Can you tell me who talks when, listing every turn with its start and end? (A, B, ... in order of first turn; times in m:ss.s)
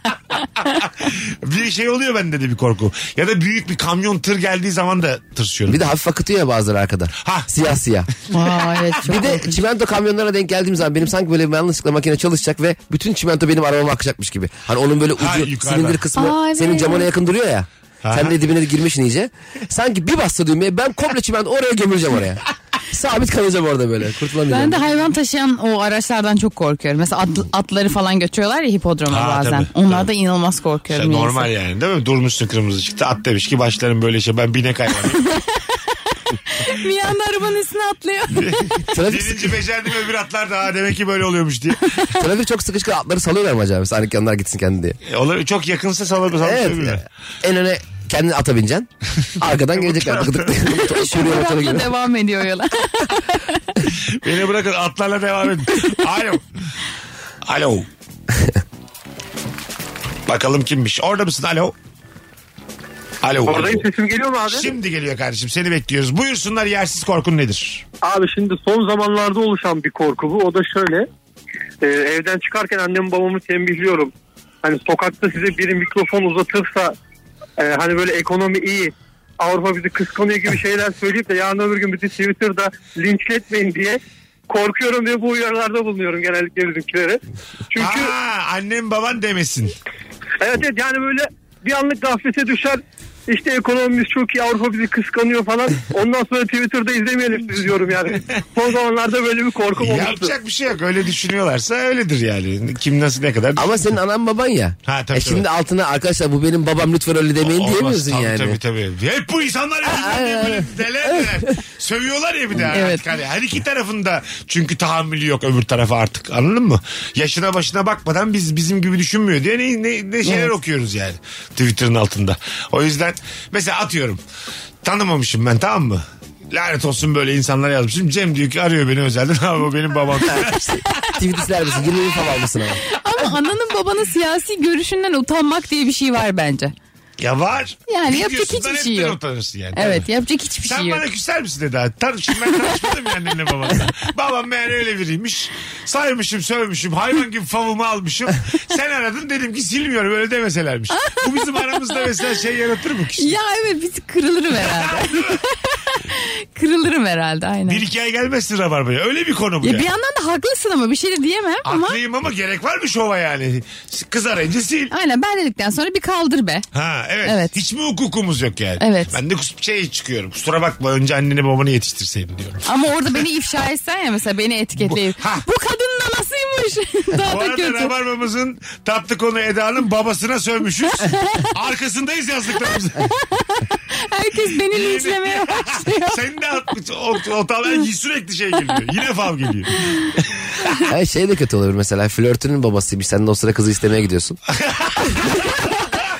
0:00.6-0:05.8 A
0:05.7-0:08.1 B
0:07.2-0:07.5 A
0:08.3-0:09.6 C
0:09.0-0:24.9 B
0:15.2-0:16.0 A
0:16.2-0:17.1 C
0:18.0-0:18.4 A
0:24.5-0:31.5 C
0:29.1-0:30.1 A
0:30.9-0:35.2 A
0:36.5-0:38.7 C
0:38.3-0:42.0 A
0:38.9-0:39.6 B
0:42.1-0:45.0 B
0:45.1-0:47.0 A
0:46.4-0:48.9 B
0:49.4-0:51.9 B
0:49.7-0:50.6 A
0:50.7-0:53.6 C
0:54.1-0:56.5 A
0:57.4-0:57.9 A
1:00.3-1:01.7 A
1:03.2-1:03.9 A
1:03.5-1:04.7 D
1:04.5-1:07.8 A
1:08.0-1:11.1 D
1:11.8-1:14.1 D
1:14.6-1:17.0 D
1:17.6-1:27.2 D
1:27.7-1:28.1 D
1:27.8-1:29.7 A
1:30.4-1:40.3 D
1:39.8-1:43.9 A
1:43.6-1:48.6 B
1:44.9-1:45.5 A
1:47.4-2:04.2 A
1:49.8-1:51.5 B
1:52.7-1:53.0 C
2:00.2-2:00.5 C
2:04.8-2:11.1 A
2:10.3-2:12.8 B
2:12.9-2:16.7 C
2:17.2-2:20.1 A
2:17.9-2:19.2 C
2:19.8-2:21.0 C
2:20.6-2:33.4 A
2:31.0-2:32.2 C
2:33.2-2:37.8 C
2:34.6-2:35.4 A
2:37.7-2:39.9 A
2:39.6-2:42.0 C
2:41.6-2:44.9 A
2:44.9-2:46.6 C
2:46.7-2:53.2 A
2:47.2-2:47.6 C
2:48.8-2:49.1 C
2:52.7-2:57.9 C
2:54.8-2:55.4 A
2:57.2-3:03.1 A
3:01.0-3:01.4 C
3:03.1-3:06.2 C
3:04.7-3:10.8 A
3:10.9-3:14.4 B
3:14.5-3:16.1 A